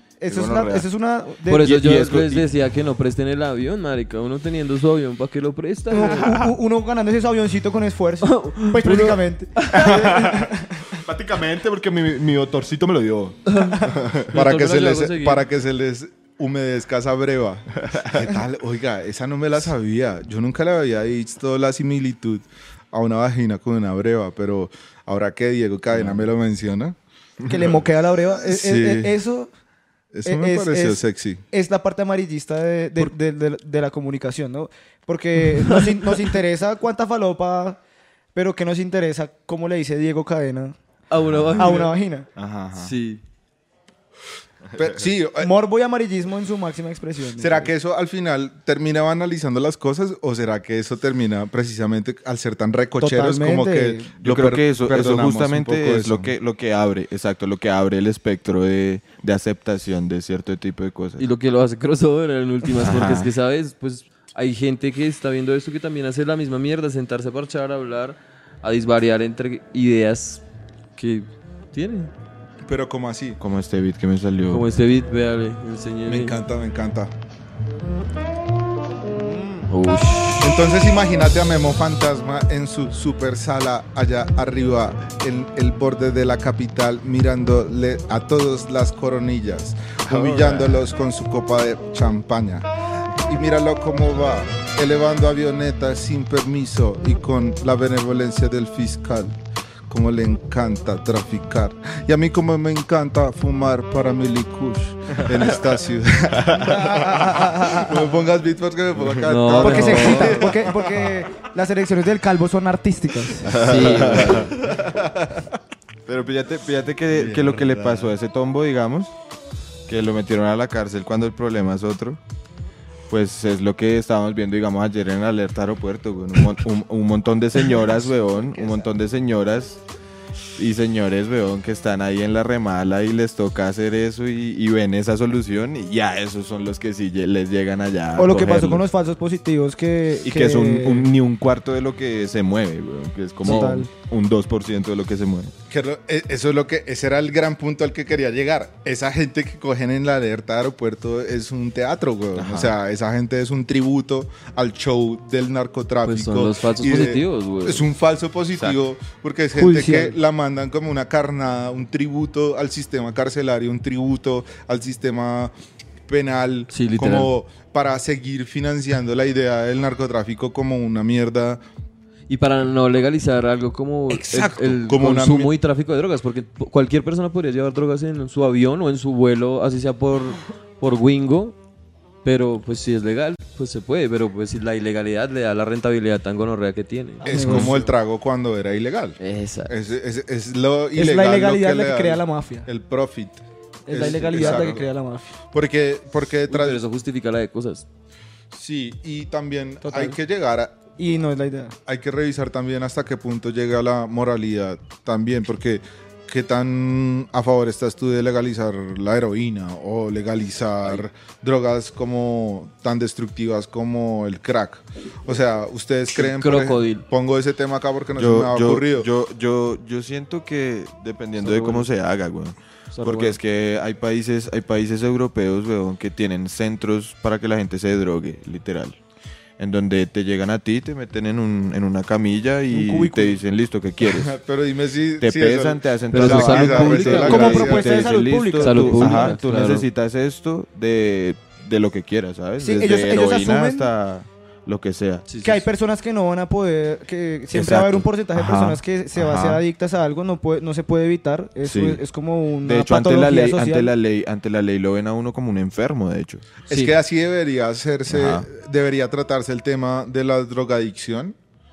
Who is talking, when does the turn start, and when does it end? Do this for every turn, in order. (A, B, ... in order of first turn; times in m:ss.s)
0:00.2-0:01.8 A
0:00.3-0:00.9 B
0:01.5-0:06.5 C
0:01.6-0:02.5 B
0:05.9-0:11.0 A
0:08.2-0:09.9 C
0:09.7-0:14.4 B
0:13.5-0:15.4 C
0:14.3-0:27.0 D
0:17.9-0:18.3 B
0:25.9-0:26.3 B
0:27.5-0:29.5 A
0:28.4-0:29.2 D
0:30.1-0:31.4 D
0:30.2-0:37.8 A
0:38.4-0:40.8 A
0:41.1-0:41.9 C
0:41.2-0:41.8 B
0:41.6-0:42.3 A
0:42.4-0:42.9 B
0:42.8-0:43.2 C
0:44.7-0:45.1 B
0:44.8-0:45.5 D
0:45.4-0:47.7 A
0:47.4-0:56.3 D
0:53.0-0:54.1 A
0:54.2-1:01.3 B
1:01.2-1:10.4 C
1:02.8-1:03.3 B
1:11.0-1:12.1 C
1:12.6-1:13.4 D
1:13.4-1:14.7 B
1:14.5-1:16.4 C
1:16.1-1:17.1 D
1:19.7-1:20.7 C
1:20.4-1:39.3 D
1:30.0-1:30.9 B
1:39.9-1:51.0 D
1:46.4-1:46.9 B
1:46.7-1:47.9 A
1:49.3-1:50.6 C
1:49.6-1:53.5 A
1:53.4-1:54.6 B
1:53.6-1:54.5 C
1:54.0-1:55.4 D
1:56.1-1:59.1 B
1:57.1-1:58.1 D
1:59.9-2:02.2 B
2:03.1-2:09.8 B
2:10.6-2:18.8 B
2:18.2-2:21.1 A
2:20.2-2:25.5 B
2:23.4-2:23.9 A
2:25.7-2:45.5 D
2:32.4-2:32.8 B
2:36.0-2:37.8 C
2:38.5-2:38.8 B
2:39.5-2:40.2 A
2:46.1-2:51.6 D
2:46.7-2:47.3 C
2:52.3-3:01.6 C
2:54.1-2:55.5 D
3:02.2-3:07.9 C
3:07.2-3:07.8 A
3:07.2-3:14.9 D
3:09.2-3:09.7 C
3:11.0-3:12.7 A
3:13.9-3:15.3 A
3:14.0-3:14.8 C
3:15.5-3:16.8 D
3:16.5-3:17.8 C
3:18.5-3:20.8 D
3:19.8-3:20.2 A
3:21.0-3:21.8 A
3:21.9-3:39.1 D
3:36.1-3:37.0 C
3:38.2-3:49.0 B
3:41.4-3:41.9 C
3:42.9-3:43.4 C
3:49.6-3:54.3 B
3:52.7-3:53.4 A
3:54.1-3:58.1 D
3:55.2-4:05.2 B
3:56.1-3:57.7 C
3:57.1-3:59.4 A
3:58.6-3:59.8 C
4:02.6-4:03.9 A
4:05.3-4:05.6 C
4:05.4-4:13.9 A
4:07.5-4:09.6 B
4:11.6-4:12.0 B
4:12.6-4:16.5 B
4:16.7-4:21.4 D
4:16.7-4:17.0 C
4:18.1-4:18.5 B